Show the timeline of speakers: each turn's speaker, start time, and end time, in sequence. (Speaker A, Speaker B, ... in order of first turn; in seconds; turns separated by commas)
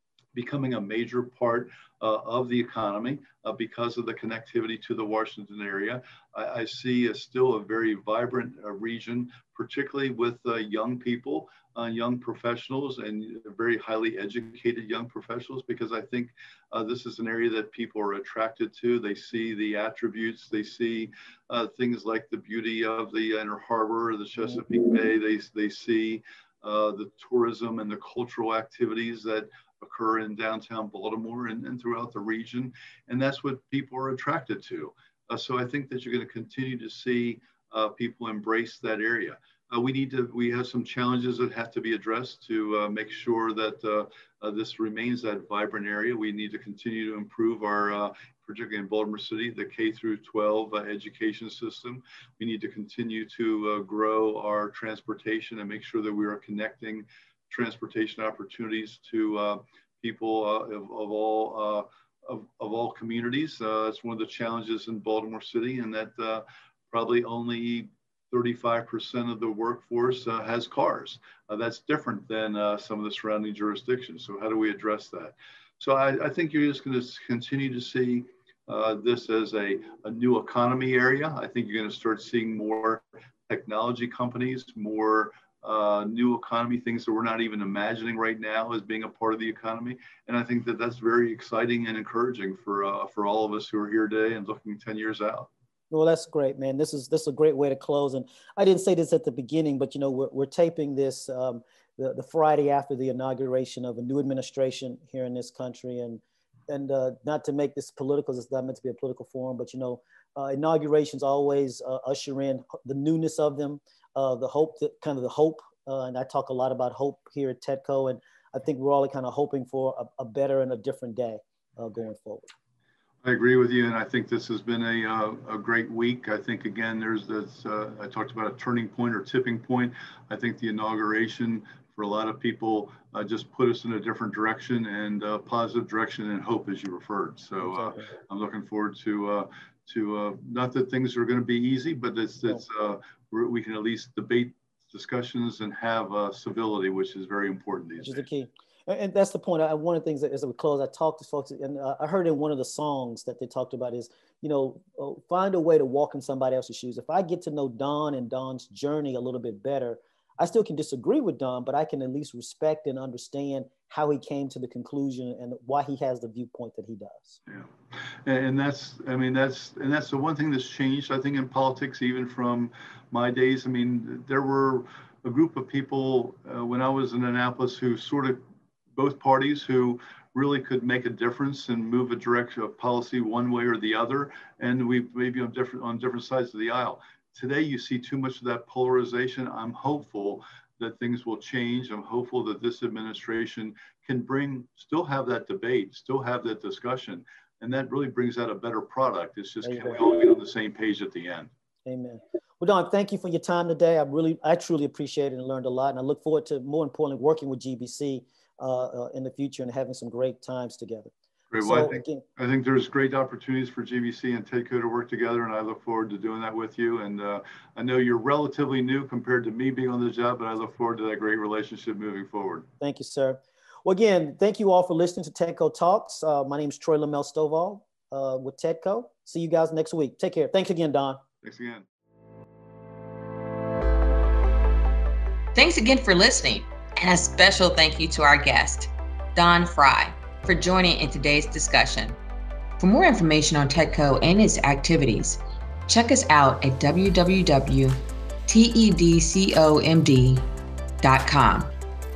Speaker A: 0.3-95.5, Speaker B: 95.9-122.5, Speaker A: 123.2-148.3, Speaker B: 137.6-138.1, Speaker B: 148.0-167.4, Speaker A: 167.5-178.4, Speaker A: 178.9-201.5, Speaker B: 199.6-200.0, Speaker B: 201.9-212.2, Speaker A: 211.5-222.7, Speaker B: 222.8-231.2, Speaker A: 231.4-231.9, Speaker C: 235.6-242.2, Speaker C: 242.8-250.5, Speaker C: 251.0-251.7